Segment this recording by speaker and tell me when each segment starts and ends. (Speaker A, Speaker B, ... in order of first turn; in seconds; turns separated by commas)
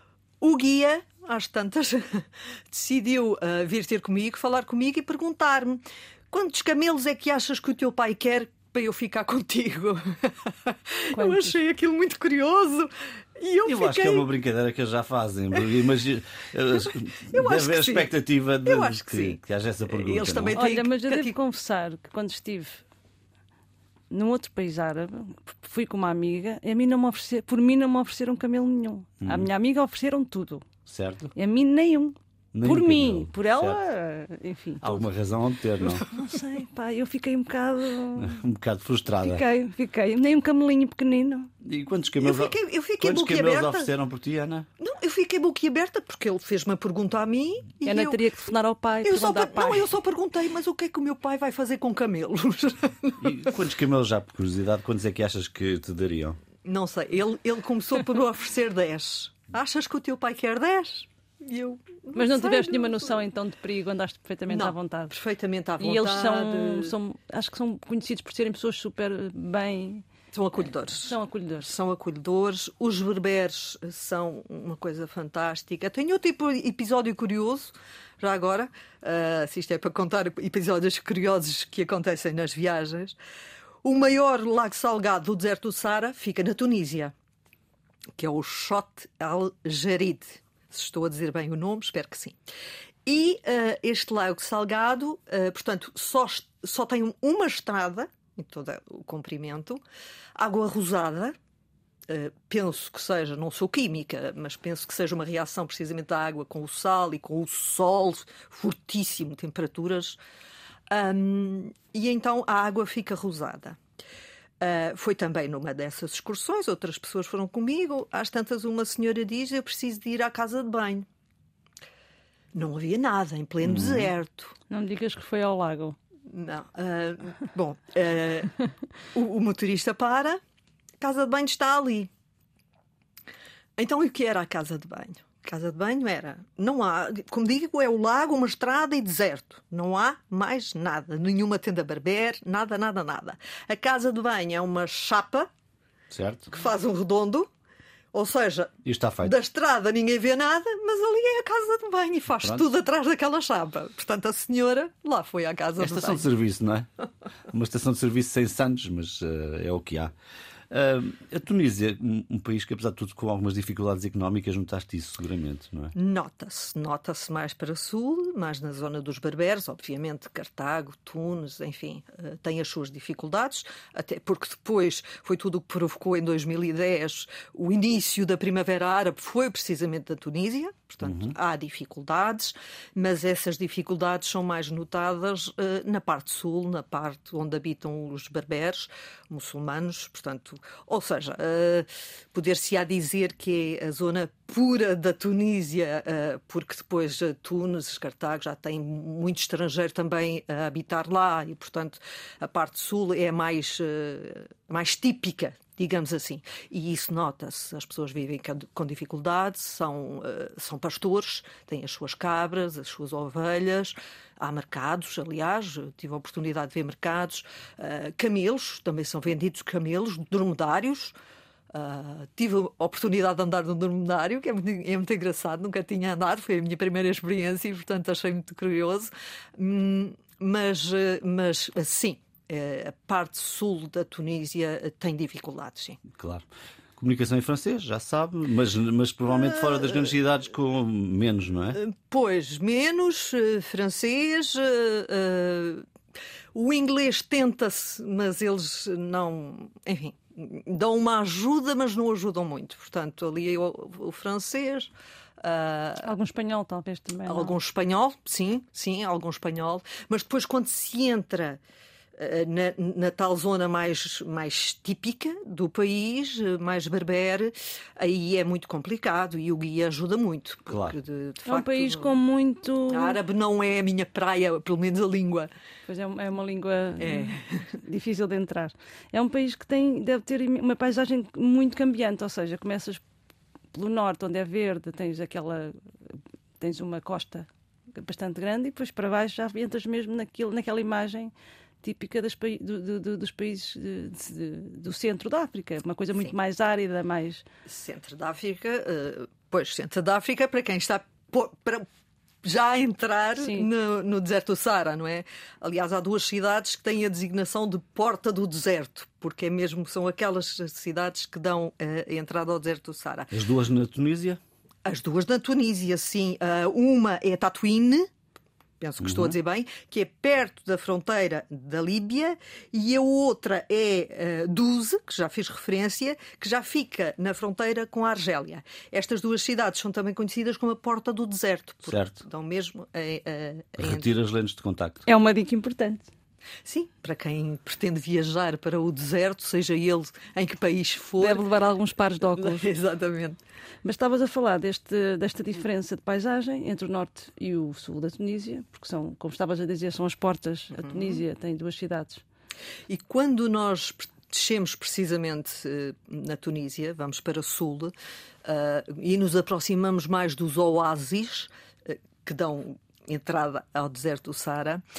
Speaker A: 0.4-14.3, Speaker B: 11.1-11.6, Speaker C: 13.7-20.6, Speaker A: 16.9-21.4, Speaker B: 20.6-22.8, Speaker B: 24.1-30.7, Speaker C: 29.2-29.5, Speaker C: 30.9-31.3, Speaker B: 31.4-35.1, Speaker C: 32.5-33.8, Speaker C: 34.8-36.0, Speaker A: 35.9-36.3, Speaker B: 36.1-38.4, Speaker C: 38.2-39.4, Speaker B: 39.2-41.5, Speaker C: 41.6-44.7, Speaker A: 42.2-43.9, Speaker A: 44.8-48.2, Speaker B: 47.9-49.9, Speaker A: 49.0-53.5, Speaker C: 53.2-56.4, Speaker A: 56.6-63.2, Speaker B: 62.1-65.2, Speaker A: 64.5-66.9, Speaker B: 65.8-70.0, Speaker A: 70.3-83.2, Speaker B: 71.0-71.7, Speaker A: 83.8-87.1, Speaker A: 88.2-92.4, Speaker A: 93.1-99.8, Speaker A: 100.4-101.4, Speaker A: 102.1-110.2, Speaker A: 110.9-113.8, Speaker A: 114.6-121.1, Speaker A: 122.5-124.5, Speaker C: 123.7-124.1, Speaker B: 124.7-126.0, Speaker A: 126.3-128.5, Speaker A: 129.1-130.4, Speaker A: 131.0-132.1, Speaker A: 133.8-145.5, Speaker C: 146.1-146.5, Speaker A: 146.5-147.5, Speaker A: 148.1-156.3, Speaker C: 148.8-149.3, Speaker C: 155.8-156.9, Speaker C: 157.5-160.1, Speaker C: 160.7-165.9, Speaker A: 165.9-221.1, Speaker C: 181.0-181.3, Speaker A: 221.7-236.0, Speaker C: 236.1-241.8, Speaker A: 239.3-240.1, Speaker A: 241.7-245.8, Speaker A: 246.5-256.1, Speaker B: 256.0-257.5, Speaker A: 257.3-261.6, Speaker A: 262.2-272.2, Speaker C: 270.7-271.0, Speaker B: 271.5-273.2, Speaker A: 272.9-275.5, Speaker B: 275.9-283.0, Speaker A: 277.0-277.7, Speaker B: 283.7-291.3, Speaker B: 291.8-297.5, Speaker A: 297.7-301.9, Speaker A: 302.4-313.3, Speaker B: 303.4-303.7, Speaker C: 313.3-314.4, Speaker A: 314.9-318.1, Speaker A: 318.8-334.1, Speaker C: 319.0-319.3, Speaker C: 331.9-332.2, Speaker C: 333.8-335.1, Speaker B: 335.1-336.1, Speaker A: 336.6-341.4, Speaker B: 341.2-342.7, Speaker A: 342.3-343.4, Speaker B: 343.8-352.2, Speaker A: 350.7-351.2, Speaker A: 352.9-357.9, Speaker A: 358.4-364.8